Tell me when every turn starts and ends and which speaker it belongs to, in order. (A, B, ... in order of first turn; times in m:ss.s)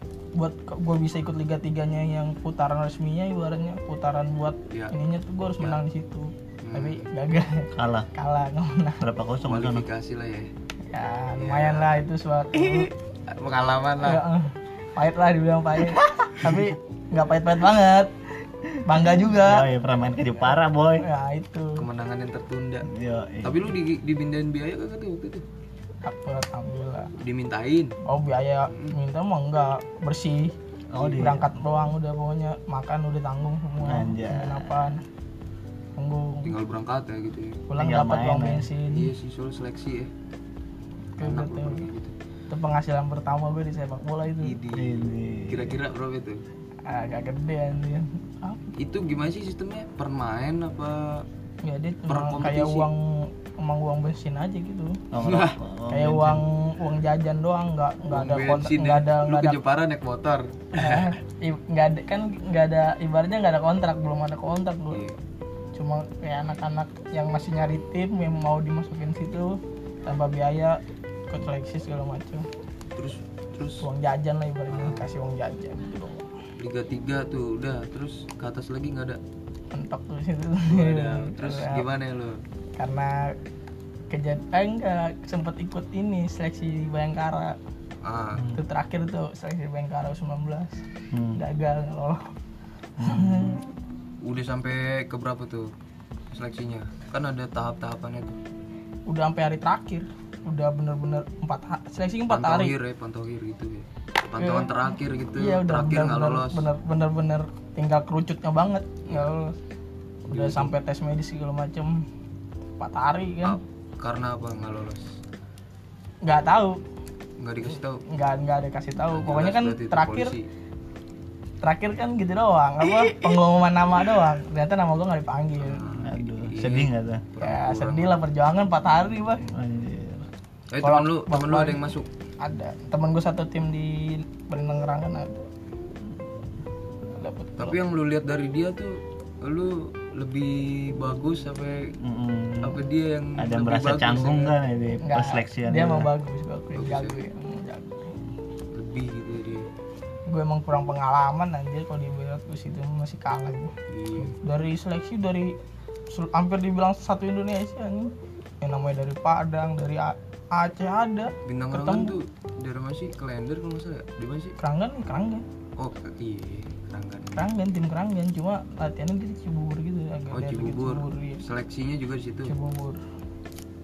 0:00.4-0:09.0 A
0:06.6-0:07.1 B
0:07.8-0:08.1 C
0:09.0-0:09.8 C
0:09.4-0:10.5 B
0:10.9-0:12.9 A
0:11.4-0:12.1 B
0:12.6-0:14.2 B
0:14.0-0:18.1 A
0:16.3-0:16.7 C
0:18.8-0:19.7 A
0:19.2-0:21.0 C
0:20.3-0:21.8 A
0:21.8-0:22.9 B
0:22.8-0:23.7 C
0:23.4-0:25.4 B
0:26.0-0:27.1 A
0:27.2-0:28.0 B
0:28.0-0:35.0 A
0:28.7-0:29.0 B
0:30.9-0:31.5 C
0:33.8-0:34.9 C
0:36.0-0:36.5 A
0:36.4-0:37.6 B
0:37.7-0:39.1 A
0:37.8-0:38.7 C
0:38.9-0:40.1 B
0:41.2-0:41.9 A
0:41.2-0:42.2 B
0:42.5-0:44.6 A
0:44.4-0:46.4 B
0:44.7-0:45.8 C
0:46.9-0:48.8 A
0:48.8-0:51.2 B
0:51.6-0:55.0 A
0:52.1-0:52.9 B
0:55.1-0:56.4 C
0:55.2-0:55.6 B
0:55.9-0:59.6 A
0:58.1-1:01.1 B
1:00.8-1:05.0 A
1:04.9-1:05.2 B
1:05.8-1:12.5 A
1:13.0-1:13.8 B
1:13.8-1:16.3 A
1:14.7-1:15.1 B
1:16.6-1:19.2 B
1:19.7-1:21.9 A
1:20.7-1:22.4 B
1:22.8-1:23.3 A
1:24.1-1:27.6 A
1:28.0-1:28.5 B
1:28.5-1:30.8 A
1:31.1-1:31.4 C
1:31.4-1:32.3 A
1:33.0-1:33.6 C
1:33.0-1:33.6 A
1:34.2-1:35.7 B
1:36.3-1:38.4 B
1:39.1-1:42.8 A
1:42.3-1:46.7 B
1:44.4-1:44.8 A
1:45.4-1:49.6 A
1:50.3-1:52.0 A
1:50.3-1:50.7 B
1:52.8-1:53.6 A
1:53.4-1:55.0 B
1:56.2-1:56.8 A
1:57.4-1:58.0 B
1:58.0-2:00.3 A
1:59.1-2:00.4 B
2:01.6-2:05.8 A
2:05.6-2:08.2 B
2:06.0-2:07.3 C
2:07.4-2:09.5 A
2:09.4-2:10.3 C
2:10.7-2:12.1 B
2:10.8-2:11.9 A
2:12.4-2:15.4 A
2:17.1-2:17.8 A
2:17.6-2:21.9 B
2:22.0-2:22.8 C
2:22.6-2:24.6 B
2:23.4-2:26.1 C
2:25.0-2:28.2 A
2:26.8-2:27.2 B
2:28.7-2:29.7 B
2:30.3-2:35.6 A
2:33.9-2:34.4 B
2:36.1-2:42.2 A
2:41.5-2:44.6 B
2:44.6-2:45.4 A
2:45.8-2:47.5 B
2:47.4-2:51.4 A
2:50.3-2:52.5 B
2:52.5-2:53.0 A